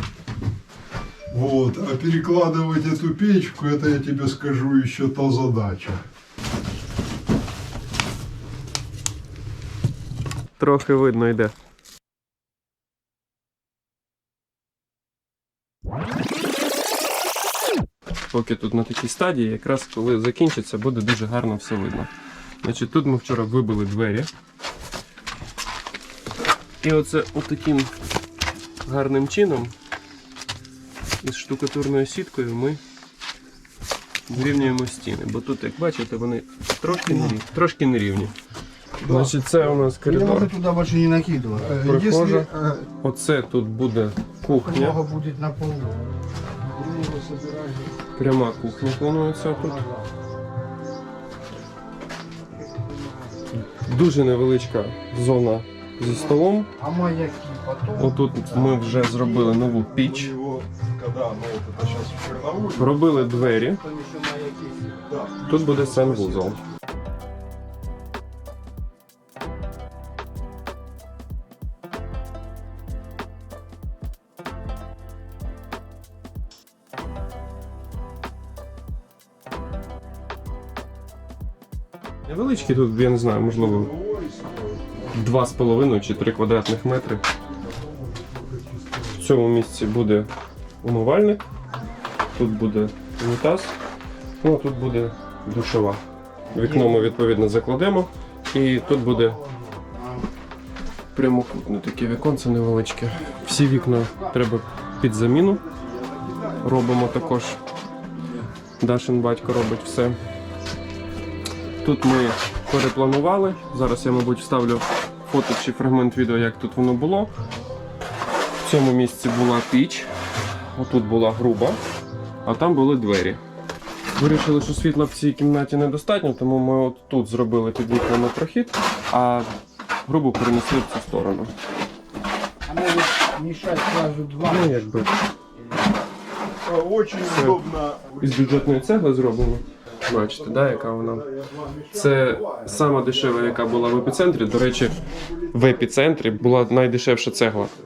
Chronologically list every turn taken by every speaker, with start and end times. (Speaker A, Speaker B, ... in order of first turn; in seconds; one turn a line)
Speaker A: 1.3-6.0
Speaker B: 10.6-11.5
Speaker B: 18.3-22.1
Speaker B: 22.6-24.3
Speaker B: 26.8-27.9
Speaker B: 28.8-29.8
Speaker B: 31.2-32.8
Speaker B: 34.3-38.3
Speaker A: 39.0-39.8
Speaker B: 39.0-40.5
Speaker C: 40.0-41.8
Speaker A: 41.6-42.5
Speaker B: 41.7-45.0
Speaker C: 42.4-42.9
Speaker C: 44.5-47.9
Speaker B: 48.1-49.8
Speaker C: 49.5-50.0
Speaker C: 52.6-53.4
Speaker B: 53.6-56.7
Speaker C: 56.0-58.6
Speaker B: 58.0-60.3
Speaker A: 58.6-63.1
Speaker B: 62.8-63.8
Speaker C: 63.3-65.0
Speaker A: 65.1-66.6
Speaker B: 65.5-66.6
Speaker B: 82.2-83.9
Speaker A: 83.4-85.3
Speaker B: 85.1-87.2
Speaker A: 87.5-89.3
Speaker B: 89.2-90.3
Speaker B: 90.8-91.4
Speaker B: 92.3-93.8
Speaker B: 94.4-99.4
Speaker C: 99.9-100.3
Speaker B: 101.1-105.6
Speaker A: 105.8-106.4
Speaker B: 106.5-107.6
Speaker B: 108.8-110.2
Speaker B: 111.8-117.3
Speaker B: 118.6-121.8
Speaker B: 122.5-123.4
Speaker B: 124.2-129.5
Speaker B: 130.1-131.5
Speaker C: 132.7-134.8
Speaker B: 134.4-135.3
Speaker A: 136.6-138.8
Speaker B: 137.2-137.6
Speaker B: 138.2-141.3
Speaker A: 140.2-144.2
Speaker B: 141.9-147.8
Speaker A: 145.2-145.8